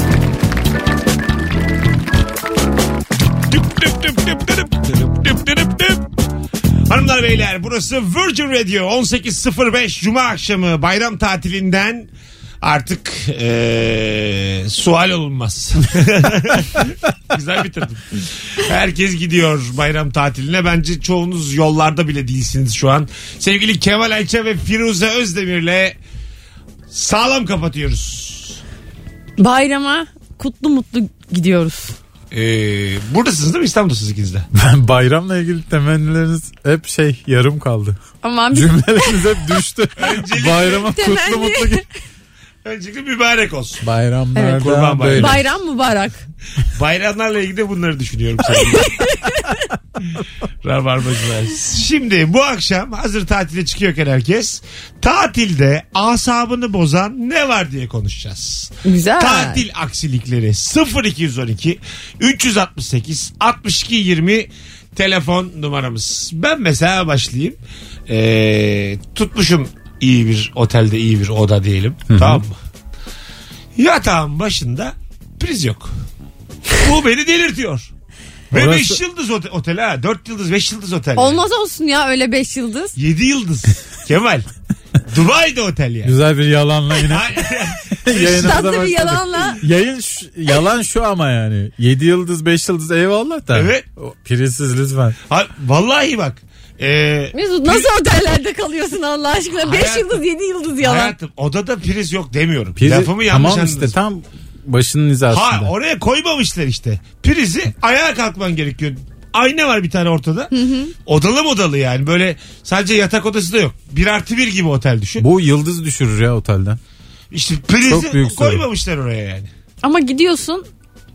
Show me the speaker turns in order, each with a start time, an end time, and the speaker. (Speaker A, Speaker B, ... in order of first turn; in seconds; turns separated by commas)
Speaker A: 3.3-6.1, Speaker A: 6.9-12.1, Speaker A: 12.6-26.0, Speaker A: 26.9-28.6, Speaker B: 29.4-31.9, Speaker A: 32.3-34.5, Speaker C: 34.5-38.0, Speaker B: 38.2-39.4, Speaker C: 38.5-41.8, Speaker A: 40.0-40.9, Speaker B: 40.9-41.8, Speaker A: 42.6-43.8, Speaker C: 43.8-45.4, Speaker B: 44.3-44.6, Speaker A: 44.6-45.4, Speaker B: 45.1-46.2, Speaker A: 46.7-49.0, Speaker B: 48.8-49.6, Speaker A: 50.6-72.6, Speaker B: 58.8-59.6, Speaker C: 72.1-72.4, Speaker A: 73.8-75.9, Speaker A: 76.7-77.9, Speaker C: 78.5-79.0, Speaker A: 78.5-81.4, Speaker B: 81.2-82.9, Speaker A: 83.0-84.5, Speaker A: 85.0-86.2, Speaker C: 86.0-95.2, Speaker A: 87.0-88.5, Speaker B: 88.1-89.6, Speaker A: 93.5-93.8, Speaker A: 95.3-97.9, Speaker B: 97.3-101.1, Speaker A: 99.6-100.2, Speaker A: 100.8-103.9, Speaker C: 102.8-105.7, Speaker A: 105.3-110.5, Speaker B: 110.5-110.9, Speaker A: 111.0-115.2, Speaker C: 115.2-116.8, Speaker A: 117.3-119.5, Speaker C: 117.8-118.6, Speaker B: 119.8-120.7